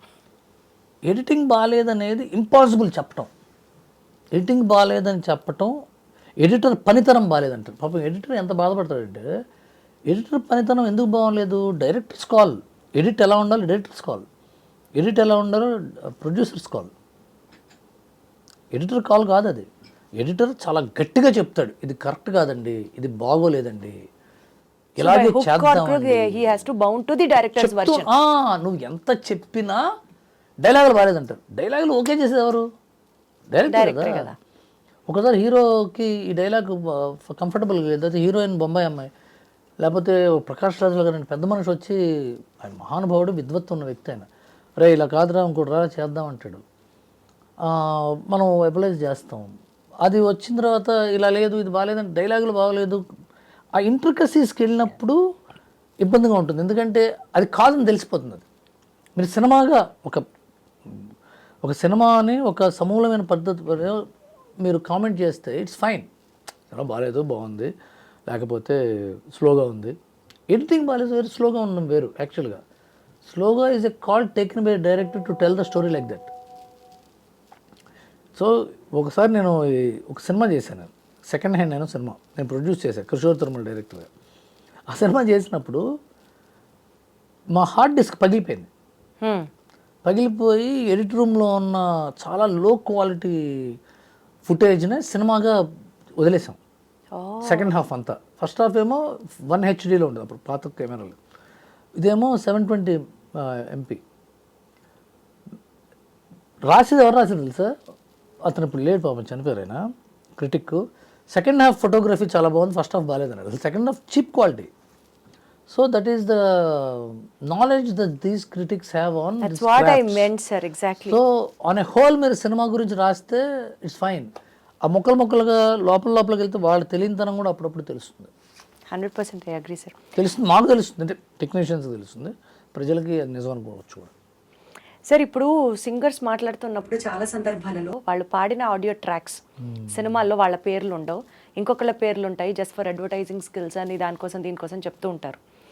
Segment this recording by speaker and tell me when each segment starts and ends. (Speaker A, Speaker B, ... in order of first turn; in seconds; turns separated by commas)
Speaker A: 1.1-3.3, Speaker A: 4.3-5.7, Speaker A: 6.4-9.3, Speaker A: 10.1-14.2, Speaker A: 15.0-16.9, Speaker A: 18.7-19.7, Speaker A: 20.2-23.9, Speaker A: 25.0-26.6, Speaker B: 25.0-28.1, Speaker A: 27.6-29.8, Speaker A: 30.6-32.6, Speaker A: 33.5-34.3, Speaker B: 33.7-34.4, Speaker A: 35.1-39.1, Speaker A: 39.8-44.3, Speaker A: 44.8-46.6, Speaker A: 47.6-49.5, Speaker A: 50.0-53.0, Speaker A: 53.8-55.2, Speaker A: 56.0-58.5, Speaker A: 59.2-60.2, Speaker A: 61.6-64.0, Speaker A: 64.6-66.1, Speaker A: 66.7-67.7, Speaker A: 68.3-69.9, Speaker A: 70.5-72.6, Speaker A: 73.2-76.3, Speaker A: 78.3-84.1, Speaker A: 84.9-85.8, Speaker A: 87.5-88.7, Speaker B: 89.2-89.5, Speaker A: 90.0-93.7, Speaker A: 94.5-95.5, Speaker A: 96.2-96.6, Speaker B: 97.1-97.7, Speaker A: 97.4-101.2, Speaker A: 102.0-104.0, Speaker A: 106.7-107.7, Speaker A: 108.4-109.8, Speaker A: 110.4-114.7, Speaker A: 115.7-120.2, Speaker B: 119.4-121.2, Speaker A: 121.0-124.3, Speaker A: 124.8-128.3, Speaker B: 128.9-129.9, Speaker A: 130.2-134.1, Speaker B: 135.1-145.4